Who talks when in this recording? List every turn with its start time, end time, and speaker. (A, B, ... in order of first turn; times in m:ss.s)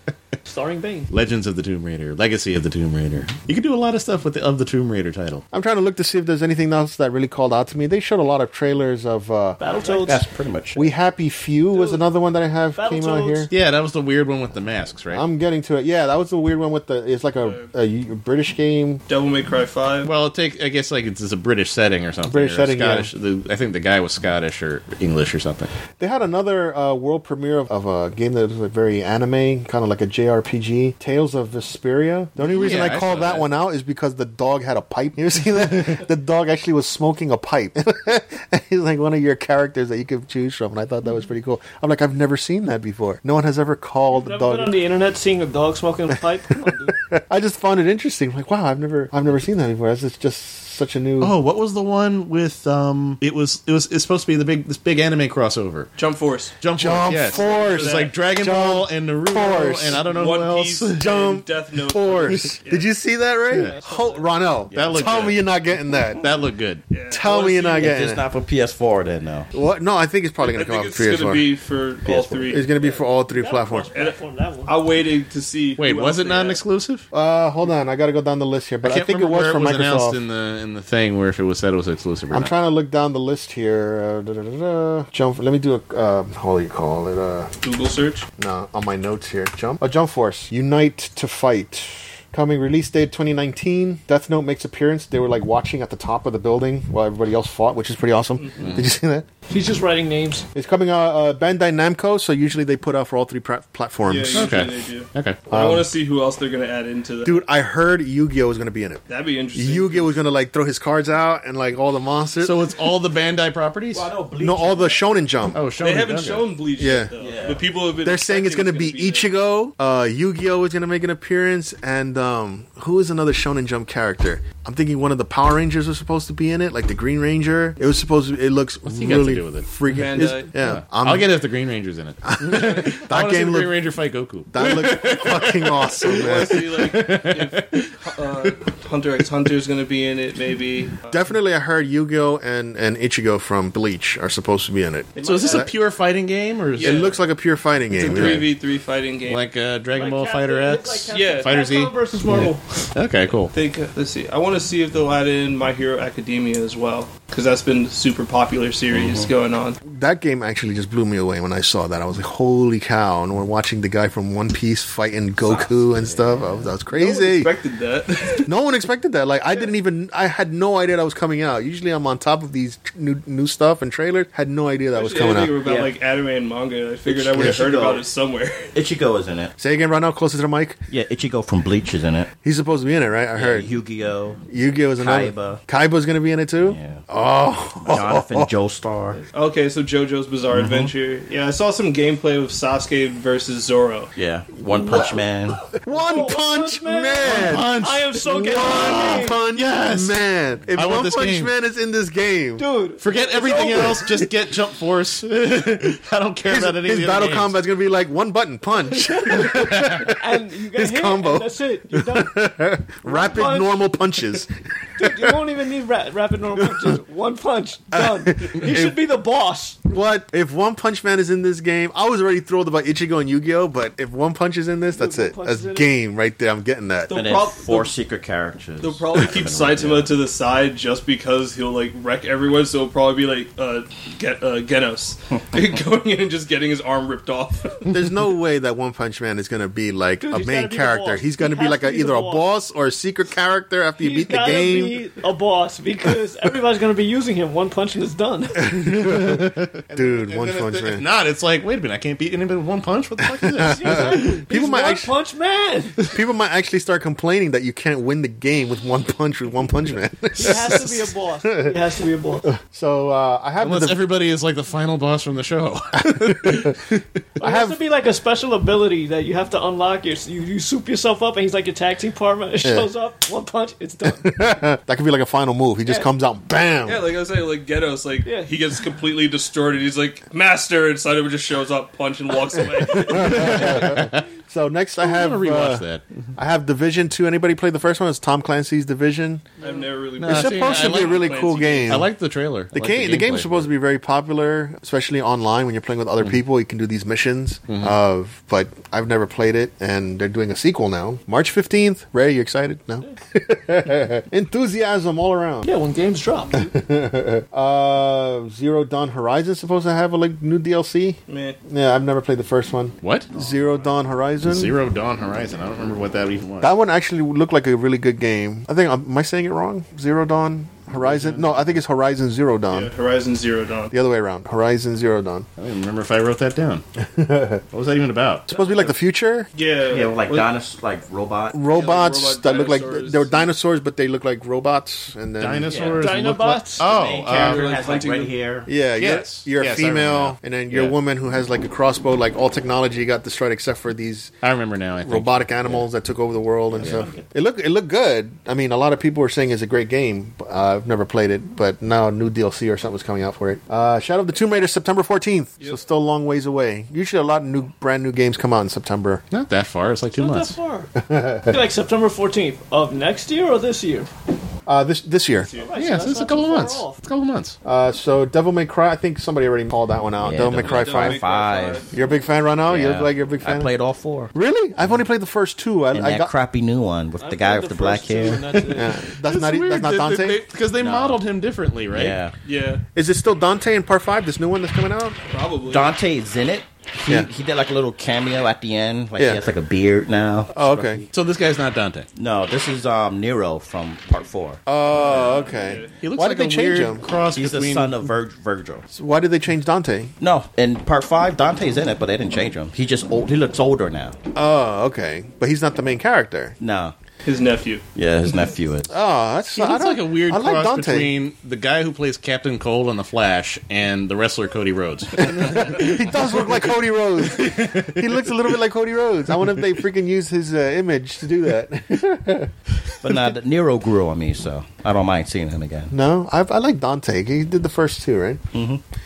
0:00.4-0:01.1 A
0:01.1-0:05.4 B
0:05.5-0:09.6 C
0:09.6-0:10.2 A
0:09.8-0:10.9 D
0:10.7-0:13.5 C
0:11.7-0:12.0 A
0:12.8-0:13.5 A
0:13.5-0:15.2 B
0:15.1-0:19.0 C
0:17.4-0:17.7 E
0:19.1-0:20.1 E
0:20.0-0:25.7 B
0:22.2-0:23.1 C
0:26.0-0:44.7 C
0:32.4-0:33.5 B
0:44.1-0:47.0 A
0:46.9-0:51.3 C
0:51.2-0:55.9 B
0:56.0-0:56.6 E
0:56.6-1:01.1 B
0:56.8-1:00.0 C
0:57.3-0:58.2 E
1:00.0-1:02.9 E
1:01.0-1:06.3 C
1:03.5-1:03.8 B
1:03.5-1:04.3 A
1:04.7-1:05.2 D
1:04.7-1:05.4 B
1:06.0-1:06.8 B
1:06.9-1:07.9 E
1:07.1-1:08.2 C
1:07.8-1:09.5 D
1:09.5-1:11.5 C
1:10.4-1:12.7 E
1:12.0-1:12.4 D
1:12.4-1:13.9 C
1:12.8-1:14.8 A
1:13.9-1:16.6 E
1:15.8-1:17.0 B
1:17.1-1:20.2 C
1:18.8-1:22.5 B
1:22.3-1:27.5 C
1:27.6-1:28.3 E
1:28.4-1:39.2 C
1:38.4-1:38.7 E
1:38.6-1:38.9 B
1:39.5-1:40.5 A
1:40.5-1:44.6 C
1:44.0-1:47.4 E
1:44.3-1:45.4 B
1:45.5-1:45.9 C
1:47.2-1:49.0 C
1:49.1-1:50.2 E
1:49.5-1:52.7 C
1:52.4-1:54.1 B
1:53.9-1:55.0 D
1:54.4-1:55.6 C
1:55.5-1:56.5 B
1:55.8-1:59.3 E
1:56.8-1:57.1 C
1:57.2-1:57.7 D
1:58.0-2:11.3 C
2:08.8-2:10.0 B
2:09.9-2:10.5 E
2:10.6-2:18.5 B
2:12.2-2:13.8 C
2:14.5-2:16.8 C
2:16.0-2:21.2 E
2:21.1-2:25.7 C
2:25.1-2:25.7 E
2:25.2-2:27.1 B
2:26.8-2:27.2 E
2:26.8-2:28.5 C
2:27.9-2:29.4 E
2:28.0-2:28.5 B
2:29.3-2:33.5 B
2:29.9-2:32.9 A
2:31.1-2:31.5 E
2:33.5-2:39.8 E
2:38.9-2:39.3 D
2:39.8-2:47.5 C
2:45.4-2:46.7 D
2:46.9-2:48.5 E
2:48.4-2:55.6 C
2:54.9-2:58.7 E
2:55.6-2:55.9 D
2:57.1-2:58.0 D
2:58.7-2:59.5 D
2:59.6-3:00.8 C
3:00.9-3:02.3 D
3:02.4-3:03.7 C
3:03.4-3:04.4 D
3:04.5-3:08.5 C
3:05.0-3:05.6 D
3:06.6-3:07.0 D
3:07.8-3:09.2 D
3:09.3-3:14.1 E
3:10.5-3:10.9 D
3:14.2-3:15.6 D
3:15.8-3:22.6 C
3:15.9-3:19.4 A
3:17.2-3:21.5 B
3:22.6-3:24.2 A
3:23.0-3:27.6 B
3:26.5-3:35.4 C
3:28.8-3:32.5 A
3:29.6-3:29.9 B
3:33.0-3:33.8 A
3:35.0-3:39.8 A
3:36.6-3:37.0 C
3:37.9-3:39.0 C
3:39.8-3:47.1 C
3:44.9-3:45.9 A
3:47.1-3:47.9 E
3:47.1-3:50.2 D
3:48.8-3:57.9 E
3:57.9-4:05.0 C
4:00.2-4:02.5 A
4:04.0-4:08.8 A
4:08.6-4:11.0 C
4:08.7-4:14.4 B
4:13.4-4:15.1 C
4:13.6-4:16.1 A
4:16.1-4:21.8 C
4:20.4-4:22.5 A
4:22.4-4:24.0 C
4:23.6-4:27.0 B
4:26.0-4:26.8 C
4:27.4-4:27.8 C
4:27.4-4:34.5 A
4:32.6-4:32.9 C
4:34.0-4:37.1 C
4:36.8-4:44.0 E
4:38.2-4:38.5 A
4:42.8-4:49.5 C
4:43.1-4:44.2 B
4:45.0-4:46.1 B
4:49.6-4:52.0 E
4:50.2-4:53.7 B
4:50.2-4:52.1 C
4:52.7-5:05.7 C
4:57.7-4:58.0 B
5:05.6-5:06.7 A
5:06.6-5:14.7 C
5:11.3-5:11.6 E
5:13.0-5:13.3 B
5:14.4-5:16.7 B
5:16.6-5:22.9 C
5:21.0-5:21.7 B
5:22.7-5:23.9 E
5:23.9-5:25.5 C
5:25.6-5:26.8 B
5:27.0-5:27.6 C
5:27.7-5:28.5 B
5:28.5-5:29.5 C
5:29.5-5:30.5 E
5:29.9-5:31.6 D
5:31.5-5:35.8 C
5:31.7-5:33.5 E
5:35.4-5:37.6 B
5:35.7-5:36.1 D
5:35.9-5:36.8 A
5:36.8-5:38.7 D
5:37.3-5:38.4 E
5:38.7-5:44.3 C
5:39.0-5:41.0 B
5:44.4-5:45.9 B
5:45.0-5:59.2 C
5:46.7-5:47.2 D
5:46.8-5:47.1 B
5:59.3-6:00.6 B
6:00.1-6:00.9 A
6:01.0-6:01.6 C
6:01.5-6:04.1 A
6:04.6-6:05.5 C
6:05.4-6:05.7 E
6:05.5-6:07.0 A
6:05.7-6:07.6 B
6:07.6-6:11.2 C
6:10.2-6:11.8 D
6:10.6-6:12.0 E
6:11.9-6:13.7 C
6:12.6-6:14.3 D
6:14.3-6:16.3 C
6:15.9-6:18.6 D
6:17.2-6:19.0 A
6:18.7-6:20.4 C
6:19.2-6:22.2 B
6:20.8-6:21.2 D
6:21.9-6:22.3 D
6:22.4-6:22.8 E
6:22.9-6:25.2 C
6:25.3-6:25.9 E
6:25.7-6:31.1 D
6:29.2-6:29.4 C
6:30.5-6:31.0 C
6:31.1-6:32.1 B
6:32.1-6:34.6 D
6:34.7-6:37.0 C
6:35.0-6:36.0 E
6:36.0-6:38.1 B
6:37.3-6:38.8 D
6:38.9-6:40.1 C
6:40.2-6:44.2 D
6:44.3-6:46.6 C
6:46.6-6:46.9 D
6:47.2-6:47.8 E
6:47.9-6:48.9 D
6:48.9-6:51.1 C
6:49.6-6:56.5 B
6:55.2-7:02.5 C
6:57.2-6:58.2 B
7:03.0-7:05.9 D
7:05.9-7:08.4 C
7:08.5-7:08.8 D